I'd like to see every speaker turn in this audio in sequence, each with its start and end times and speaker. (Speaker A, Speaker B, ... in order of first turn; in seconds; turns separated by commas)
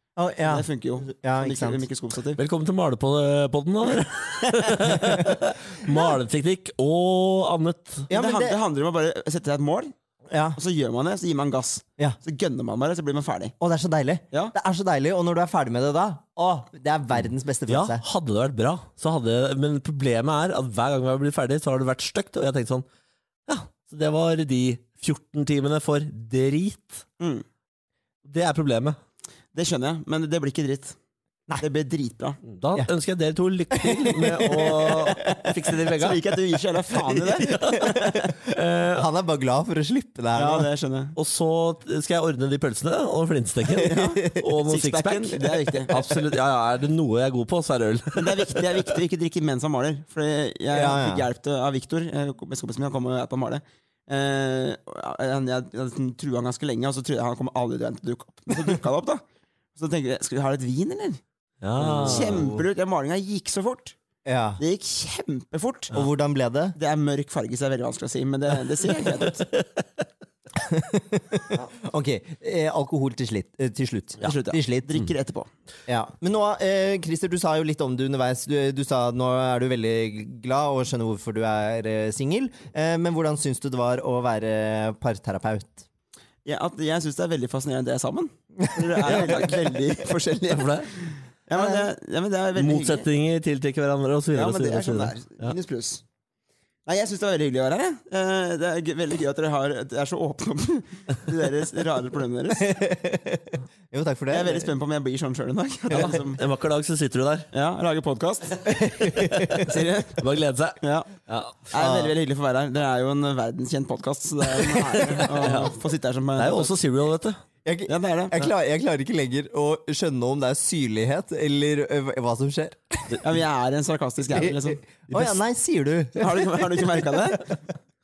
Speaker A: 0.2-1.8, Speaker B: 0.4-2.4, Speaker C: 2.4-8.1, Speaker A: 5.0-5.4, Speaker A: 8.1-8.6, Speaker B: 8.1-9.9, Speaker A: 10.3-10.6, Speaker B: 10.6-13.5, Speaker A: 13.6-18.0, Speaker C: 17.7-22.9, Speaker C: 23.5-27.0, Speaker B: 27.2-27.4, Speaker C: 28.2-29.0, Speaker B: 29.5-30.9, Speaker B: 31.6-32.4, Speaker C: 32.4-36.2, Speaker A: 33.7-35.1, Speaker B: 34.8-38.3, Speaker C: 36.9-39.0, Speaker A: 37.6-38.3, Speaker A: 38.9-40.7, Speaker B: 40.3-41.1, Speaker C: 41.1-49.0, Speaker B: 43.8-46.0, Speaker A: 43.8-44.4, Speaker B: 48.1-59.2, Speaker A: 50.7-51.2, Speaker B: 59.8-61.2, Speaker C: 61.6-62.5, Speaker A: 61.8-62.6, Speaker B: 62.0-64.0, Speaker A: 64.2-64.6, Speaker B: 64.6-66.0, Speaker A: 65.9-66.8, Speaker B: 66.8-69.5, Speaker C: 69.0-69.8, Speaker A: 70.6-74.9, Speaker B: 74.2-75.5, Speaker A: 75.9-85.8, Speaker B: 86.4-93.0, Speaker A: 88.6-89.4, Speaker C: 90.5-90.9, Speaker A: 91.5-91.9, Speaker C: 92.5-95.5, Speaker B: 94.3-96.0, Speaker B: 96.8-102.8, Speaker A: 102.6-104.7, Speaker B: 104.3-106.4, Speaker C: 105.9-107.5, Speaker B: 107.5-108.7, Speaker A: 108.7-109.7, Speaker C: 109.2-109.6, Speaker B: 109.6-110.2, Speaker C: 110.2-111.7, Speaker B: 110.8-111.1, Speaker B: 111.7-116.7, Speaker A: 111.8-112.1, Speaker C: 114.5-115.8, Speaker C: 116.3-117.4, Speaker A: 117.6-123.2, Speaker B: 117.9-118.5, Speaker B: 123.2-124.8, Speaker A: 124.4-127.3, Speaker C: 125.1-125.4, Speaker B: 126.2-127.5